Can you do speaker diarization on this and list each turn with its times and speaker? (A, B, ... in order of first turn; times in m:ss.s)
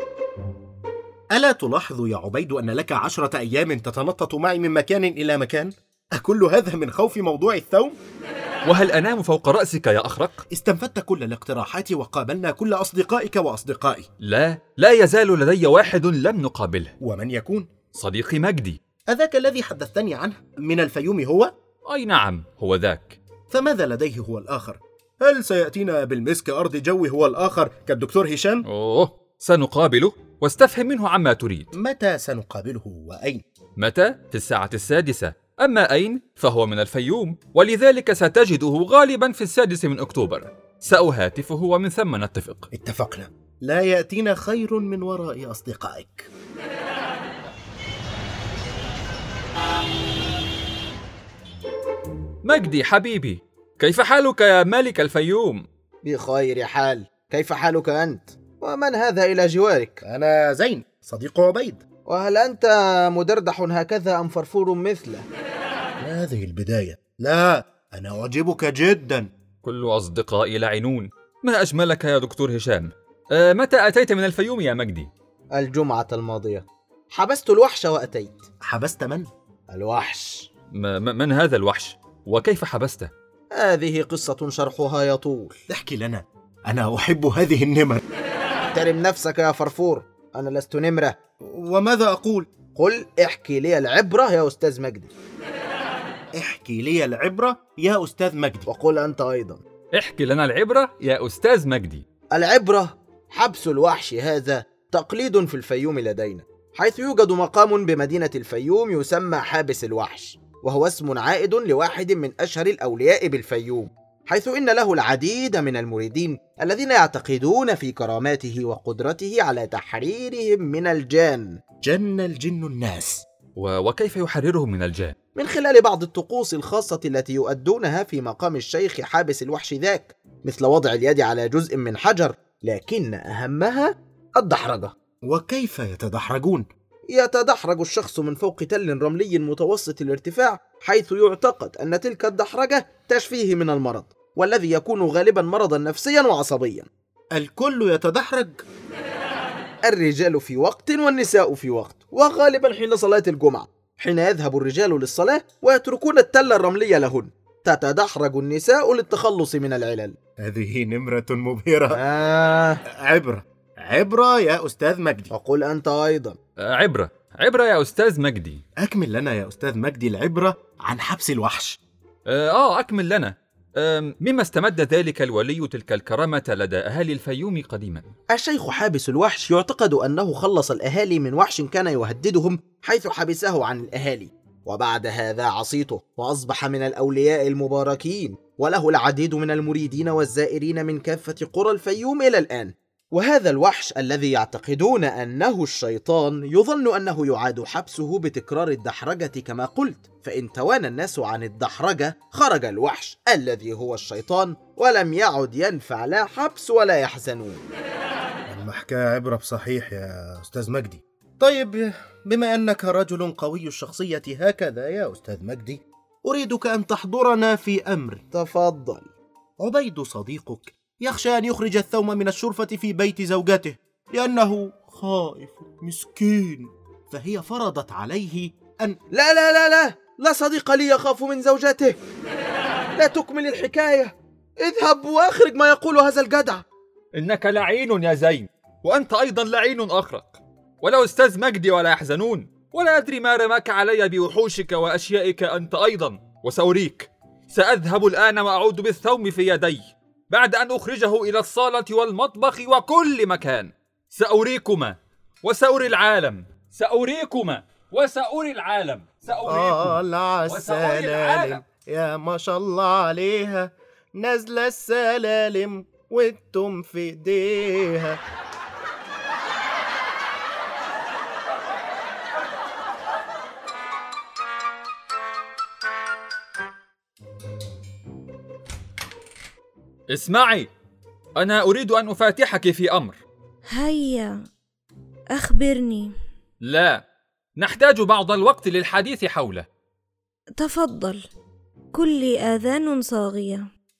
0:01.3-0:08.0 A
0:08.6-0:10.4 B
0:10.5-0:14.1 A
0:14.2-0:16.9 B
0:17.0-0:17.7 A
0:17.9-0:18.8 B
0:19.1-0:21.5 A
0:21.9-0:23.2 B
0:23.5-0:28.6 A
0:28.6-0:31.7 B
0:31.7-0:33.4 A
0:33.8-0:42.7 B
0:42.7-0:46.3 A
0:52.4-0:55.7 B
0:56.0-1:00.0 C
1:00.0-1:01.8 A
1:02.1-1:05.3 C
1:06.0-1:09.3 A
1:09.6-1:15.1 B
1:15.6-1:18.4 C
1:18.6-1:19.3 A
1:19.7-1:20.5 C
1:20.7-1:23.1 B
1:23.6-1:25.6 C
1:25.7-1:28.0 A
1:28.7-1:31.1 C
1:31.5-1:32.5 A
1:32.8-1:35.1 C
1:36.4-1:38.7 A
1:38.7-1:39.6 C
1:39.9-1:42.0 B
1:42.3-2:01.6 C
2:01.8-2:03.2 A
2:03.6-2:05.1 B
2:05.4-2:14.9 C
2:15.2-2:16.7 A
2:17.1-2:26.9 C
2:27.3-2:28.6 A
2:29.8-2:40.2 C
2:40.4-2:42.0 A
2:41.9-2:42.8 C
2:42.9-2:45.3 A
2:45.3-2:46.4 C
2:46.6-2:48.6 B
2:48.8-2:51.8 A
2:52.2-2:58.1 B
2:58.3-3:27.6 C
3:28.5-3:38.2 A
3:38.3-3:39.1 C
3:39.6-3:49.0 A
3:49.1-3:52.0 C
3:53.0-3:56.6 C
3:57.2-4:21.6 B
4:19.4-4:28.2 A
4:40.1-4:40.7 B
4:41.4-4:43.2 B
4:43.7-4:44.4 D
4:45.3-4:46.1 D
4:46.6-4:47.0 B
4:47.6-4:49.7 B
4:50.6-4:51.3 D
4:51.9-4:53.7 D